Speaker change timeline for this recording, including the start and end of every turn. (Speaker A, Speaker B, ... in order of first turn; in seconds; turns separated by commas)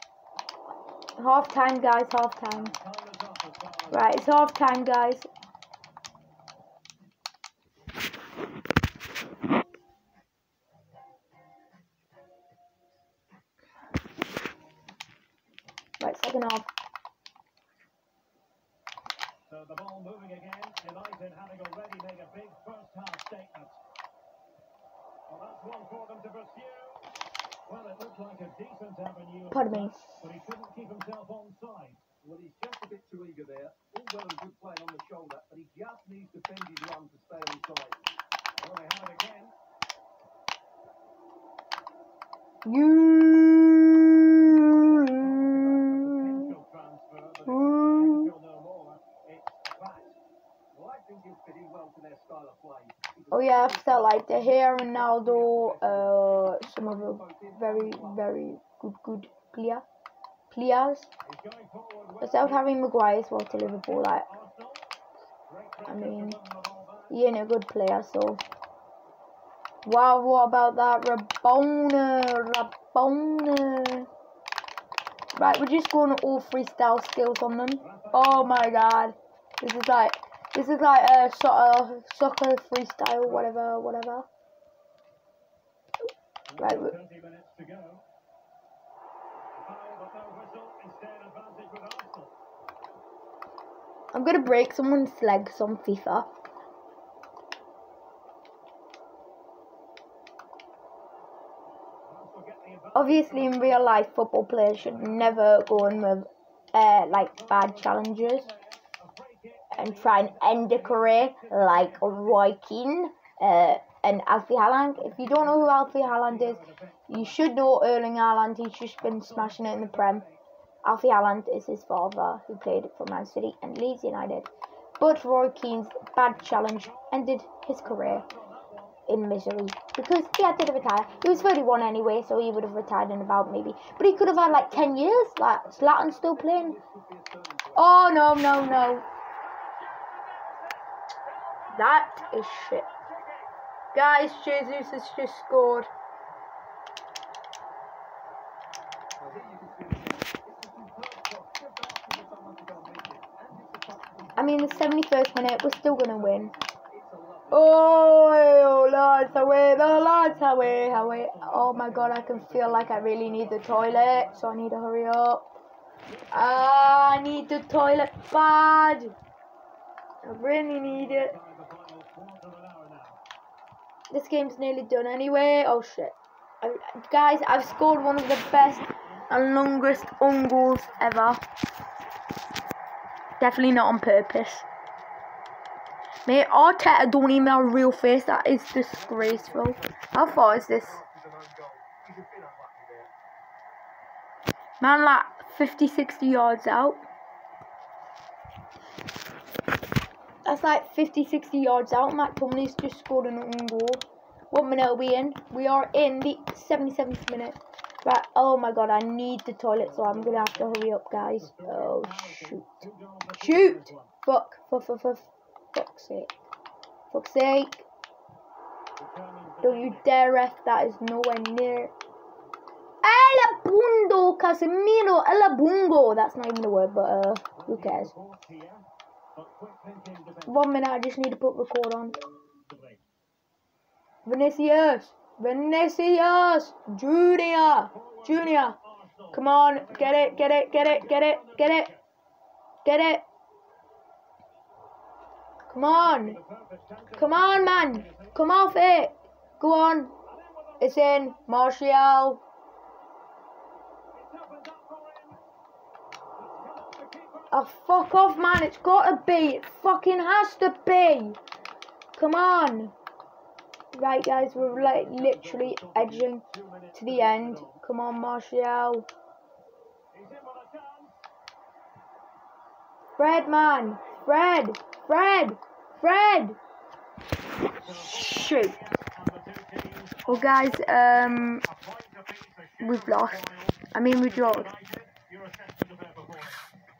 Speaker A: 1.2-2.7, Speaker B: 2.5-4.3, Speaker A: 3.9-5.3, Speaker A: 16.0-16.7, Speaker B: 19.5-23.8, Speaker B: 25.3-27.1, Speaker B: 27.6-32.0, Speaker A: 29.5-30.0, Speaker C: 32.2-38.0, Speaker B: 38.6-39.5, Speaker A: 42.6-46.5, Speaker B: 44.6-50.2, Speaker A: 47.5-48.3, Speaker C: 50.7-58.2, Speaker A: 53.3-59.8, Speaker A: 60.5-61.1, Speaker B: 61.2-62.6, Speaker A: 62.2-64.3, Speaker B: 63.5-64.9, Speaker B: 65.5-67.1, Speaker A: 65.9-66.4, Speaker A: 67.1-68.4, Speaker A: 69.8-74.1, Speaker A: 75.3-84.2, Speaker B: 77.8-78.8, Speaker B: 86.5-88.0, Speaker A: 86.6-87.0, Speaker B: 89.5-92.3, Speaker A: 94.1-96.3, Speaker B: 102.1-104.0, Speaker A: 102.9-108.5, Speaker B: 104.8-105.7, Speaker B: 107.2-112.4, Speaker A: 109.7-120.2, Speaker B: 114.9-117.6, Speaker B: 119.0-120.4, Speaker A: 120.8-128.3, Speaker B: 126.5-127.2, Speaker B: 127.8-129.0, Speaker A: 129.1-136.8, Speaker C: 134.4-137.9, Speaker A: 137.8-139.0, Speaker B: 139.4-143.5, Speaker A: 141.7-142.8, Speaker A: 143.9-145.9, Speaker C: 149.2-157.7, Speaker A: 154.3-156.5, Speaker A: 157.5-165.5, Speaker B: 159.5-164.6, Speaker B: 166.1-167.0, Speaker A: 166.3-169.1, Speaker A: 170.2-171.3, Speaker B: 170.8-173.2, Speaker A: 174.1-181.4, Speaker B: 177.6-181.4, Speaker A: 183.4-184.7, Speaker A: 186.2-191.0, Speaker C: 188.9-193.1, Speaker A: 194.8-197.0, Speaker A: 200.4-216.3, Speaker B: 209.7-214.1, Speaker A: 217.1-217.9, Speaker B: 218.9-220.1, Speaker A: 219.6-221.9, Speaker A: 223.0-228.1, Speaker B: 227.5-230.7, Speaker A: 230.5-232.2, Speaker B: 232.7-233.0, Speaker A: 234.2-238.8, Speaker B: 237.9-242.0, Speaker A: 239.3-241.9, Speaker A: 242.8-243.2, Speaker A: 245.7-246.4, Speaker B: 245.9-248.4, Speaker A: 247.1-250.2, Speaker B: 250.2-251.5, Speaker A: 250.8-252.4, Speaker B: 254.1-255.4, Speaker B: 256.4-257.6, Speaker A: 257.5-261.4, Speaker A: 262.1-262.9, Speaker A: 263.9-269.1, Speaker B: 264.3-267.8, Speaker B: 270.1-271.2, Speaker A: 273.2-276.6, Speaker B: 277.7-286.6, Speaker A: 278.1-278.8, Speaker A: 280.2-281.6, Speaker A: 282.8-284.7